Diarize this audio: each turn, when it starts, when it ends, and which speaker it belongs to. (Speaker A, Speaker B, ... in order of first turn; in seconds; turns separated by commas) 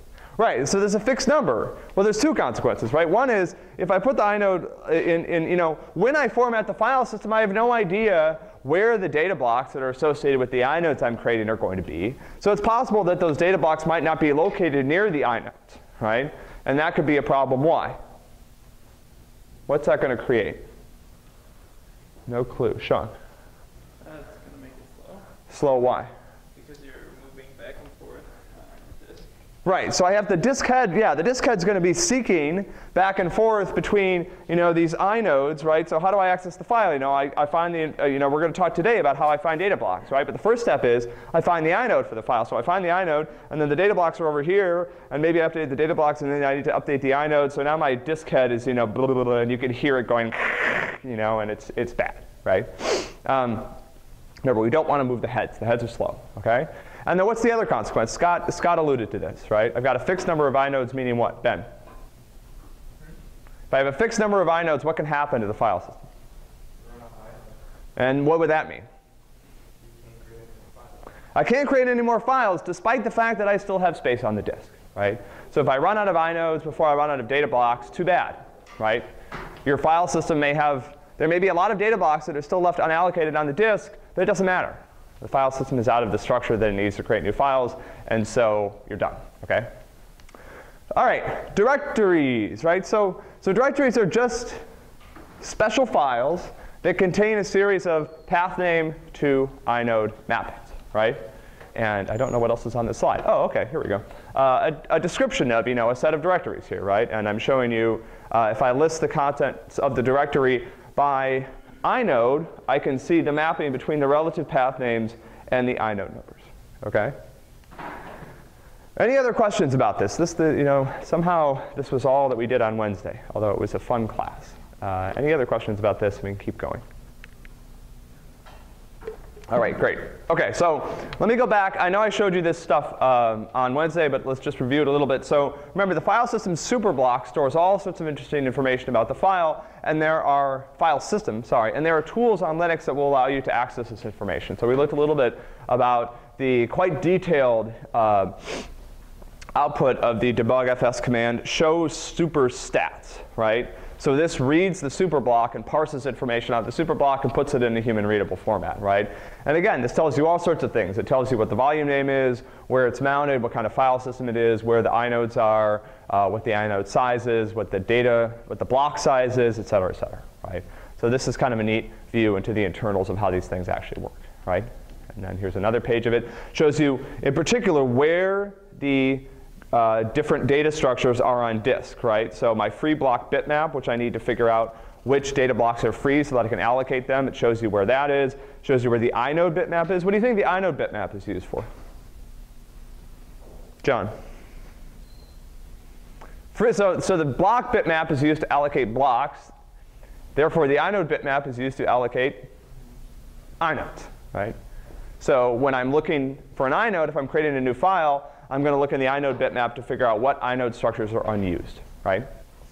Speaker A: 0.4-18.0, Speaker A: 19.7-20.7, Speaker A: 22.3-23.1, Speaker B: 24.0-25.2, Speaker A: 25.5-26.1, Speaker B: 26.5-29.3, Speaker A: 29.6-53.7, Speaker A: 54.4-61.7, Speaker A: 63.7-66.0, Speaker B: 66.8-67.5, Speaker A: 68.0-68.8, Speaker B: 69.8-71.0, Speaker A: 71.3-79.1, Speaker A: 79.6-89.7, Speaker A: 90.9-94.6, Speaker A: 95.4-101.2, Speaker A: 101.7-117.2, Speaker A: 119.0-126.8, Speaker A: 129.5-148.7, Speaker A: 149.5-191.7, Speaker A: 193.8-194.1, Speaker A: 196.5-199.5, Speaker A: 200.3-202.5, Speaker A: 203.6-204.6, Speaker A: 205.2-212.3